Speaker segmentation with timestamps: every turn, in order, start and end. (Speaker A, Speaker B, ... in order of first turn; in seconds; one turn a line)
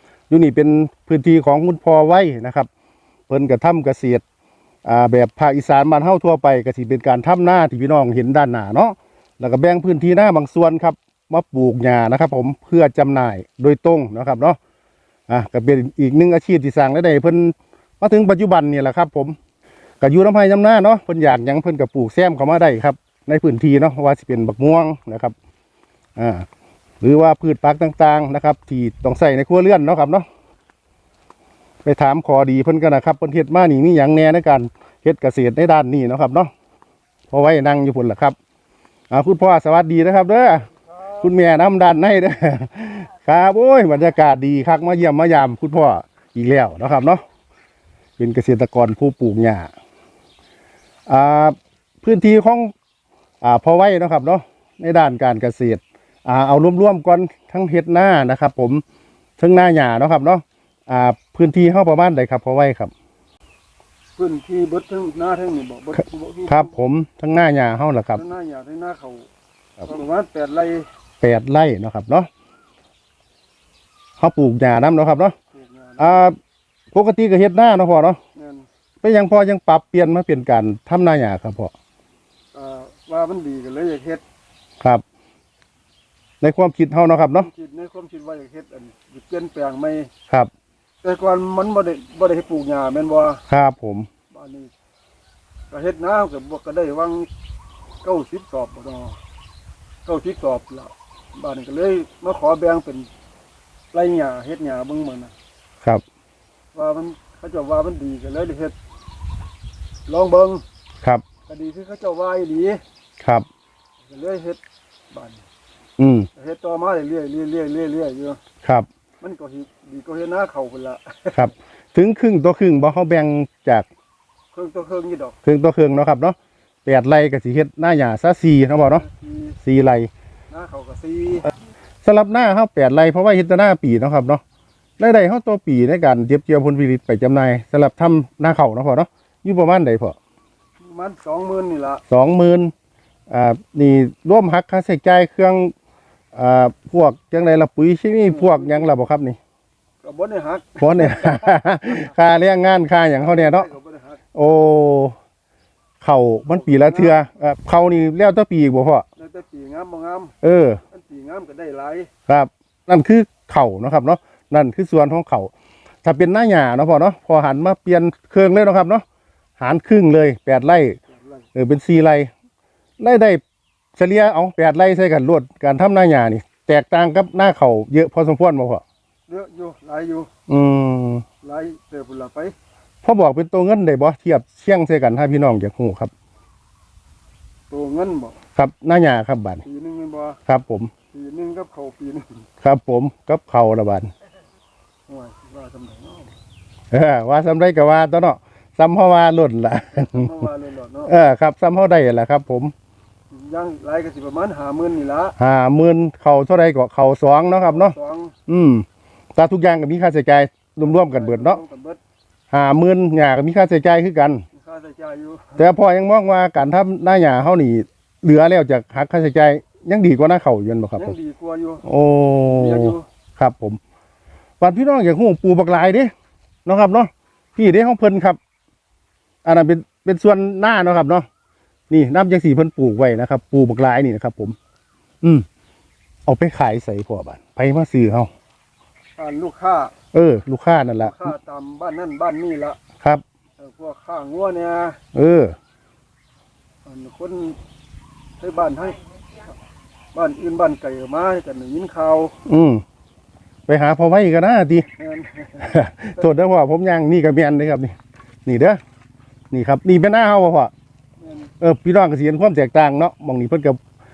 Speaker A: 0.3-2.7
Speaker A: 3.3-4.2
Speaker A: 4.8-14.6
Speaker A: 15.3-19.4
Speaker A: 20.0-25.3
Speaker A: 26.2-26.5
Speaker A: 27.0-30.3
Speaker A: 31.8-36.5
Speaker A: 37.3-38.4
Speaker A: 39.1-47.2
Speaker B: 40.7-41.3
Speaker A: 48.2-49.7
Speaker A: 51.1-52.7
Speaker A: 53.4-58.8
Speaker A: 59.4-62.9
Speaker B: 64.2-66.8
Speaker A: 66.5-68.2
Speaker B: 68.1-69.3
Speaker B: 69.8-70.9
Speaker A: 71.2-72.3
Speaker A: 74.2-75.3
Speaker B: 75.5-76.2
Speaker A: 76.0-76.4
Speaker A: 76.9-78.2
Speaker B: 78.3-78.7
Speaker A: 79.0-81.7
Speaker B: 82.5-84.2
Speaker A: 86.4-87.5
Speaker B: 87.3-90.1
Speaker B: 91.0-93.4
Speaker A: 93.5-94.1
Speaker B: 94.3-94.7
Speaker B: 95.7-97.3
Speaker B: 98.0-99.2
Speaker B: 100.0-103.1
Speaker B: 103.9-105.3
Speaker B: 106.7-108.7
Speaker B: 110.1-110.6
Speaker B: 111.5-112.8
Speaker A: 113.2-113.5
Speaker B: 114.1-114.6
Speaker B: 115.1-115.4
Speaker A: 116.0-116.3
Speaker B: 116.4-118.4
Speaker B: 119.2-121.5
Speaker A: 121.3-123.9
Speaker B: 124.5-125.4
Speaker A: 125.5-129.1
Speaker B: 128.8-129.6
Speaker A: 129.6-130.1
Speaker B: 130.5-131.5
Speaker A: 132.0-134.4
Speaker A: 135.0-140.2
Speaker B: 140.8-142.0
Speaker A: 142.1-142.7
Speaker A: 143.3-145.7
Speaker A: 146.3-149.4
Speaker B: 148.2-148.9
Speaker B: 150.0-152.1
Speaker A: 150.8-153.7
Speaker B: 153.2-154.2
Speaker A: 154.3-155.2
Speaker A: 156.0-159.1
Speaker B: 156.5-157.2
Speaker B: 159.2-162.1
Speaker A: 160.4-160.8
Speaker A: 162.3-165.5
Speaker A: 166.0-169.1
Speaker A: 169.6-171.0
Speaker B: 171.1-171.4
Speaker A: 171.6-172.3
Speaker A: 173.0-173.4
Speaker A: 173.9-178.8
Speaker B: 179.3-180.3
Speaker A: 180.5-181.2
Speaker B: 181.4-182.6
Speaker A: 183.0-186.1
Speaker B: 187.7-188.4
Speaker A: 188.6-189.6
Speaker B: 189.6-190.4
Speaker A: 190.5-190.9
Speaker B: 191.1-192.4
Speaker A: 192.6-194.1
Speaker B: 195.1-196.3
Speaker A: 196.9-200.4
Speaker B: 199.9-201.1
Speaker A: 201.1-202.7
Speaker B: 203.3-205.3
Speaker A: 205.4-207.9
Speaker B: 207.4-208.3
Speaker A: 208.5-211.6
Speaker B: 210.8-212.0
Speaker A: 212.5-214.4
Speaker B: 214.5-215.6
Speaker A: 215.6-221.2
Speaker B: 221.0-221.9
Speaker A: 221.8-223.8
Speaker B: 222.5-223.1
Speaker A: 224.6-226.1
Speaker A: 226.7-228.4
Speaker A: 229.4-231.3
Speaker A: 231.9-234.6
Speaker A: 236.2-238.3
Speaker B: 239.2-239.9
Speaker A: 240.1-241.3
Speaker B: 241.0-242.8
Speaker B: 243.6-245.0
Speaker A: 245.2-245.6
Speaker B: 246.8-247.6
Speaker B: 248.4-249.1
Speaker B: 250.1-252.3
Speaker A: 252.4-252.8
Speaker A: 253.7-254.9
Speaker B: 254.9-256.2
Speaker A: 255.6-257.9
Speaker A: 258.5-258.8
Speaker A: 259.5-260.7
Speaker B: 261.2-261.5
Speaker A: 261.6-263.8